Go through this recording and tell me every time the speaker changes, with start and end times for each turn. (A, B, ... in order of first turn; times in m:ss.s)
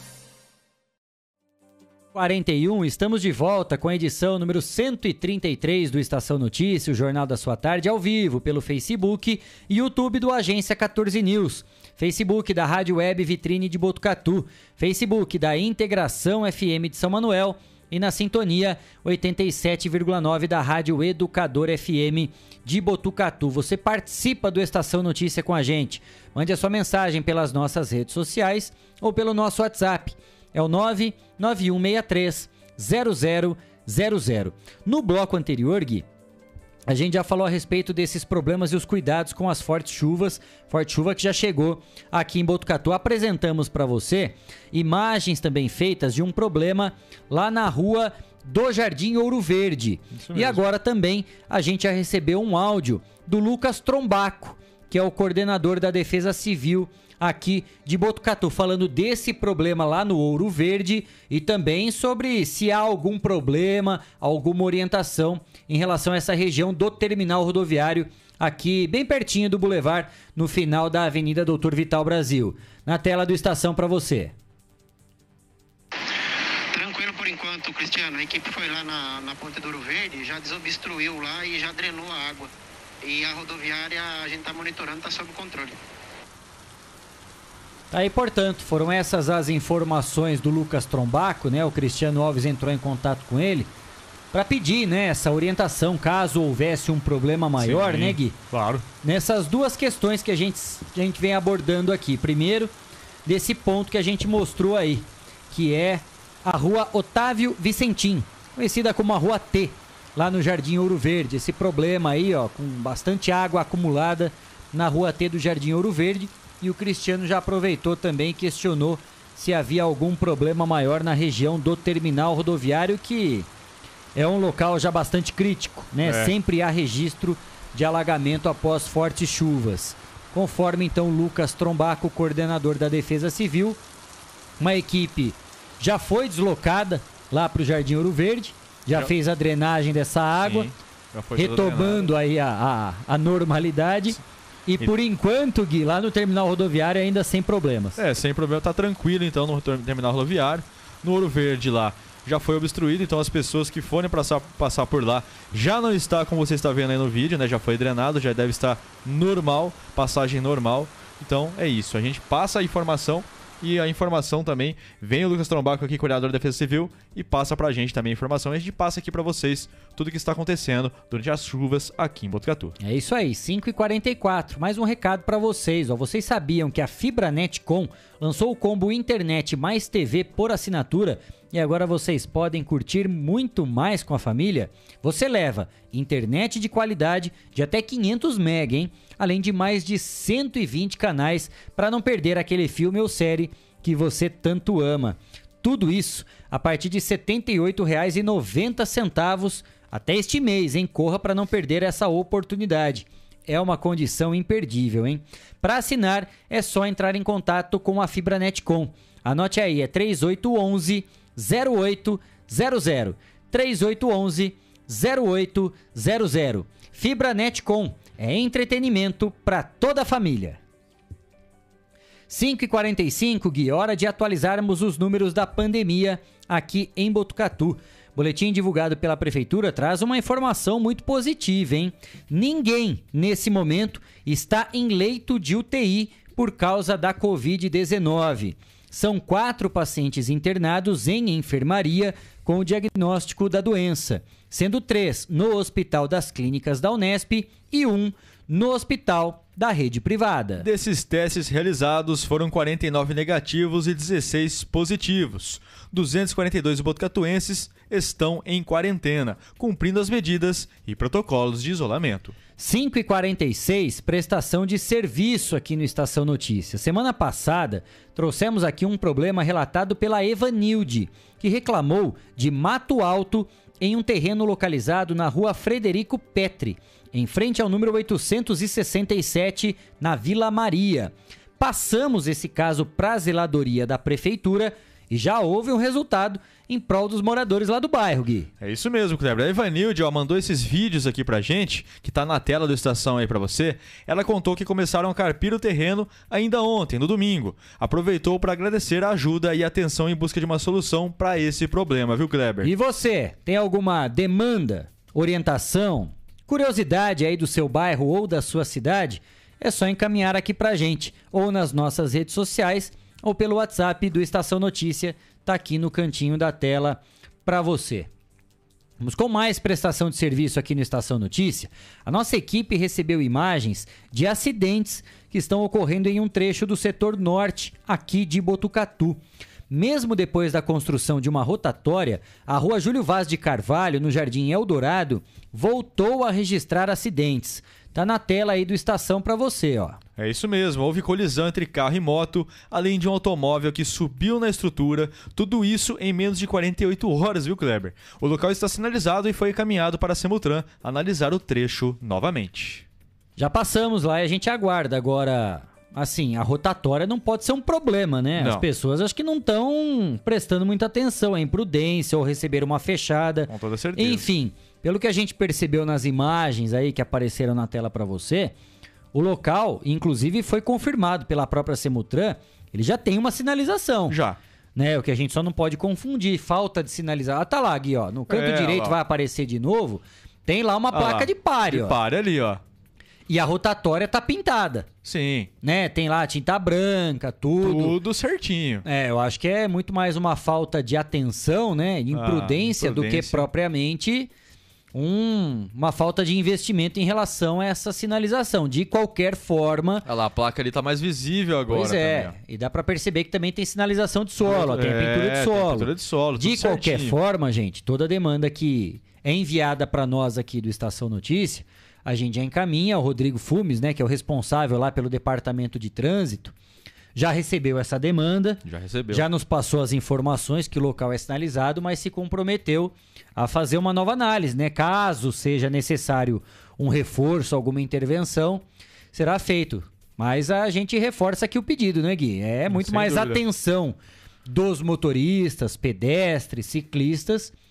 0:02.1-0:36.0 A
0:36.9-1:14.3 A
0:50.2-0:50.6 B
1:16.7-1:22.5 C
1:23.0-1:25.8 C
1:27.9-1:33.7 A
1:34.3-1:38.4 A
1:37.6-1:38.8 B
1:39.0-1:42.7 A
1:43.2-2:03.5 A
2:04.2-2:13.8 A
2:06.0-2:06.3 B
2:14.6-2:20.7 A
2:20.4-2:22.1 B
2:21.4-2:28.0 A
2:28.0-2:52.8 B
2:52.8-3:40.6 A
3:42.3-4:10.7 A
4:10.6-4:22.4 B
4:22.6-4:48.5 A
4:48.6-5:02.7 B
5:02.6-5:18.1 A
5:19.0-5:40.0 A
5:40.2-5:52.8 B
5:53.4-6:08.5 A
5:58.4-5:58.7 B
6:03.5-6:04.3 B
6:09.1-6:14.2 A
6:14.1-6:14.4 B
6:14.8-6:22.0 A
6:18.3-6:19.0 B
6:20.9-6:22.6 B
6:23.3-6:24.9 A
6:25.0-6:25.5 B
6:25.6-6:28.0 A
6:27.6-6:28.8 B
6:28.8-6:34.3 A
6:32.1-6:33.5 B
6:34.9-6:40.1 A
6:40.1-6:42.4 B
6:41.7-6:56.5 A
6:44.4-6:47.2 B
6:57.2-7:17.5 A
6:58.7-6:59.2 B
7:12.7-7:13.4 B